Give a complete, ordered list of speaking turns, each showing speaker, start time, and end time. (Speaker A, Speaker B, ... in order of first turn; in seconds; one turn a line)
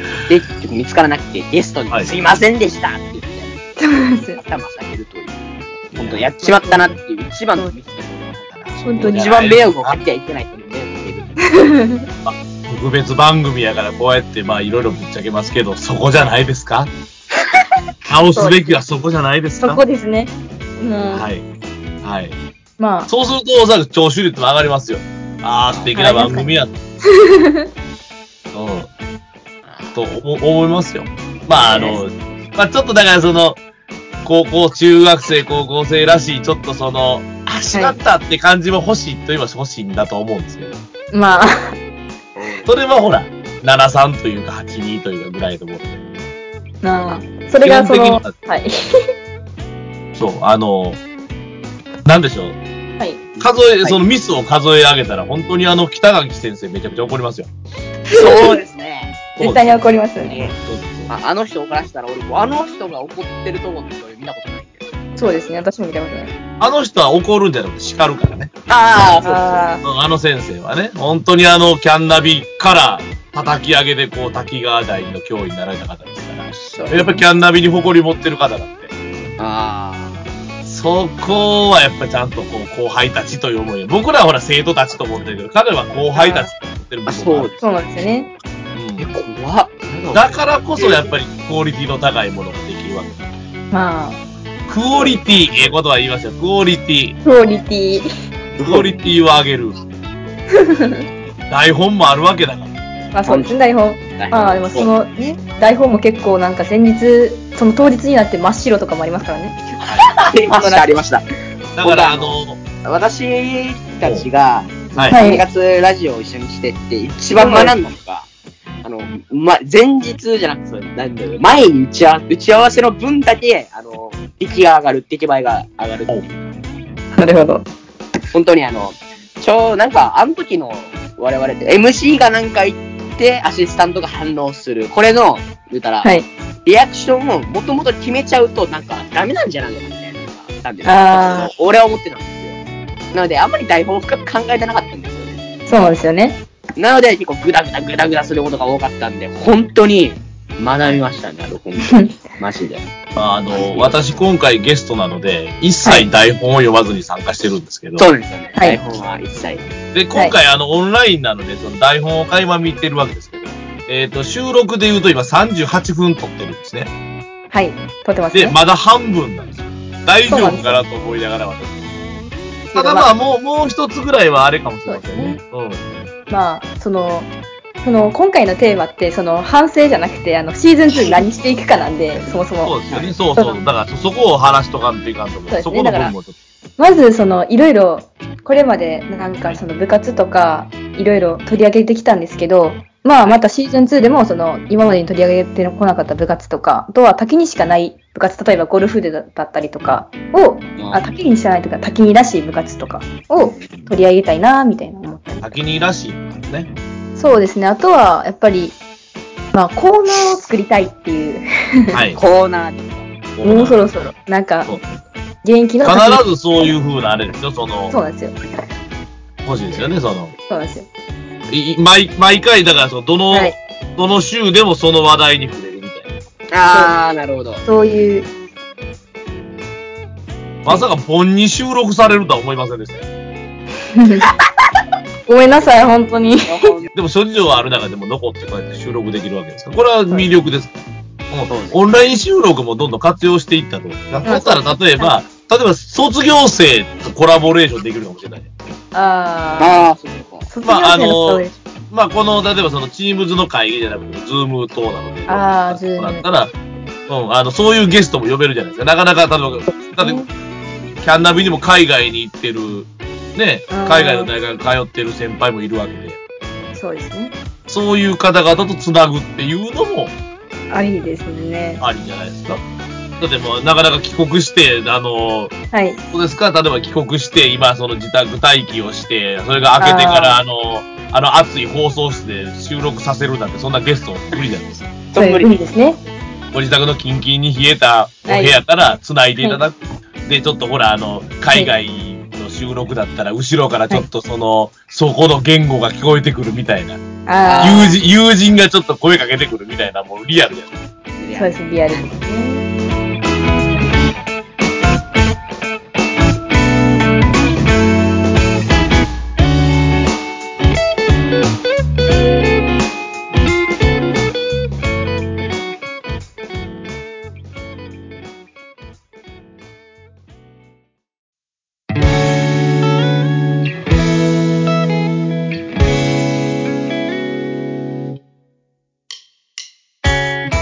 Speaker A: 0.3-3.6
Speaker B: 3.8-4.4
Speaker A: 4.3-11.4
Speaker C: 6.0-6.3
Speaker B: 6.4-6.9
Speaker B: 8.8-9.4
Speaker C: 9.0-10.0
Speaker B: 11.4-12.1
Speaker C: 12.2-16.9
Speaker C: 18.1-19.8
Speaker B: 18.3-18.8
Speaker B: 19.6-21.3
Speaker C: 21.1-21.5
Speaker C: 22.0-22.4
Speaker B: 22.8-23.1
Speaker C: 23.1-26.7
Speaker A: 25.7-26.0
Speaker B: 25.9-26.6
Speaker B: 27.1-27.7
Speaker C: 28.5-28.9
Speaker A: 29.7-30.0
Speaker C: 29.9-33.6
Speaker B: 31.7-32.0
Speaker C: 34.2-40.7
Speaker B: 37.7-38.0
Speaker B: 41.1-41.7
Speaker A: 42.4-42.7
Speaker C: 42.6-46.0
Speaker B: 46.8-49.0
Speaker C: 47.6-48.4
Speaker C: 50.1-51.0
Speaker C: 52.0-52.6
Speaker A: 53.4-54.0
Speaker C: 53.4-57.5
Speaker A: 58.1-59.1
Speaker C: 59.4-61.1
Speaker B: 59.4-60.4
Speaker A: 60.2-60.5
Speaker A: 61.1-64.9
Speaker B: 65.2-66.3
Speaker C: 66.6-68.5
Speaker A: 68.7-69.7
Speaker B: 69.2-69.8
Speaker C: 69.8-78.9
Speaker B: 76.7-77.2
Speaker A: 79.4-80.3
Speaker C: 80.7-87.5
Speaker B: 86.2-86.5
Speaker A: 87.1-87.8
Speaker B: 87.6-88.3
Speaker C: 88.8-89.1
Speaker A: 89.0-91.1
Speaker C: 90.1-93.2
Speaker B: 93.7-94.2
Speaker C: 94.7-97.2
Speaker A: 94.9-95.8
Speaker B: 97.2-98.1
Speaker A: 98.6-99.0
Speaker C: 98.6-99.8
Speaker B: 100.5-101.0
Speaker C: 101.5-102.7
Speaker B: 103.1-109.6
Speaker A: 103.2-103.5
Speaker A: 104.2-104.9
Speaker A: 109.8-111.2
Speaker B: 110.5-110.9
Speaker C: 111.8-112.6
Speaker A: 111.8-118.3
Speaker C: 115.0-115.2
Speaker B: 115.1-115.4
Speaker B: 117.3-117.7
Speaker A: 118.8-126.4
Speaker B: 127.2-127.7
Speaker A: 128.3-136.1
Speaker A: 136.7-142.6
Speaker B: 140.8-141.5
Speaker A: 143.1-145.4
Speaker B: 145.7-146.4
Speaker A: 146.8-152.9
Speaker C: 153.2-158.1
Speaker A: 153.5-154.0
Speaker B: 155.8-156.1
Speaker A: 158.0-159.7
Speaker C: 159.9-166.9
Speaker B: 167.5-168.6
Speaker C: 168.3-171.9
Speaker B: 170.3-170.8
Speaker B: 172.7-173.1
Speaker C: 172.7-175.8
Speaker B: 174.9-175.4
Speaker B: 176.3-177.3
Speaker B: 177.8-182.8
Speaker C: 182.6-186.3
Speaker A: 182.9-183.2
Speaker B: 185.5-186.1
Speaker B: 186.8-205.5
Speaker A: 200.8-201.1
Speaker A: 203.4-203.7
Speaker C: 205.4-206.7
Speaker B: 207.2-208.8
Speaker B: 209.5-212.0
Speaker C: 211.9-212.2
Speaker A: 212.2-213.1
Speaker C: 213.4-213.8
Speaker B: 213.4-214.7
Speaker C: 214.7-215.0
Speaker B: 215.4-216.2
Speaker C: 215.8-218.0
Speaker B: 217.9-218.4
Speaker C: 219.4-220.3
Speaker B: 220.5-220.9
Speaker C: 221.5-226.1
Speaker B: 223.3-223.6
Speaker A: 226.5-227.6
Speaker B: 226.7-226.9
Speaker B: 227.7-228.3
Speaker C: 230.6-233.1
Speaker B: 233.9-234.3
Speaker B: 235.3-236.7
Speaker A: 236.4-236.9
Speaker C: 236.9-248.5
Speaker A: 241.5-241.8
Speaker B: 244.2-245.2
Speaker B: 248.9-249.8
Speaker A: 249.6-250.5
Speaker B: 250.5-251.6
Speaker C: 250.6-256.5
Speaker B: 255.3-256.2
Speaker C: 257.1-260.3
Speaker B: 260.0-260.3
Speaker C: 261.0-266.2
Speaker B: 263.7-264.3
Speaker B: 266.8-267.3
Speaker C: 267.7-270.1
Speaker B: 270.7-271.8
Speaker C: 271.8-272.6
Speaker C: 273.2-275.5
Speaker B: 275.7-276.0
Speaker C: 276.1-284.9
Speaker B: 279.8-280.4
Speaker A: 285.1-285.6
Speaker B: 285.2-286.0
Speaker C: 286.5-297.0
Speaker B: 288.3-288.6
Speaker B: 297.3-297.9
Speaker A: 297.4-298.0
Speaker C: 297.6-300.7
Speaker A: 301.2-302.1
Speaker B: 301.4-302.6